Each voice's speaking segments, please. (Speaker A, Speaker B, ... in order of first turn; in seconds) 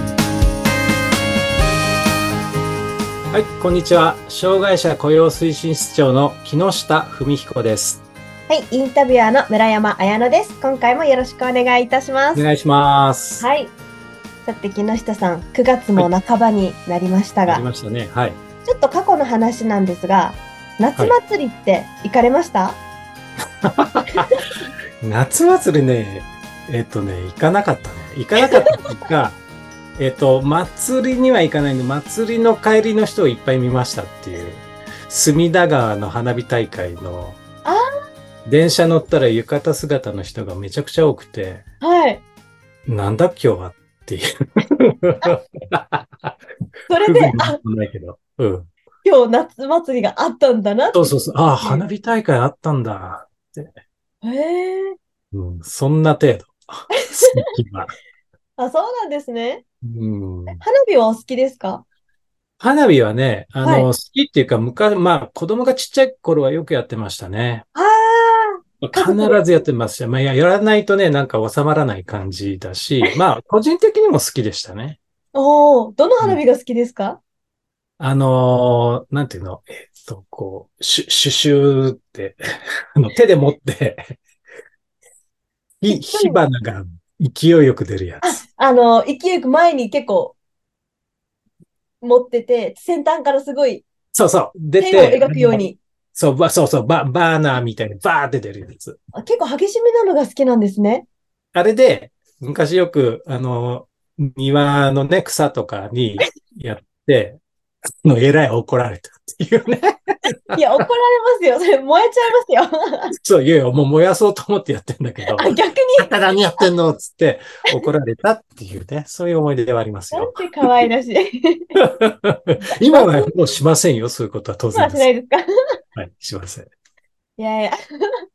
Speaker A: 3.3-8.0, 12.3-13.4, 17.5-18.4, 23.6-24.4, 25.0-29.4, 30.0-37.4, 38.5-41.6, 42.9-46.4, 47.0-48.7, 50.9-53.7, 55.3-57.9, 59.8-60.6, 62.6-67.7, 68.8-75.0, 78.0-82.4, 83.0-84.0, 85.8-88.4, 94.1-95.6, 96.2-99.0, 101.5-107.4, 108.0-110.6, 113.2-120.5, 122.0-125.1, 126.0-126.7
Speaker B: 8.5-12.4, 13.4-13.7, 14.4-17.6, 18.6-22.8, 41.8-42.2, 46.9-47.6, 49.0-51.8, 54.2-55.0, 58.6-59.6, 60.6-61.9, 63.6-63.9, 67.8-69.4, 75.3-77.2, 85.9-86.4, 88.2-90.3, 92.0-93.8, 94.8-95.8, 99.2-101.1, 110.5-113.2, 115.3-116.7, 120.1-121.8, 122.7-123.3, 124.8-125.4, 127.4-127.8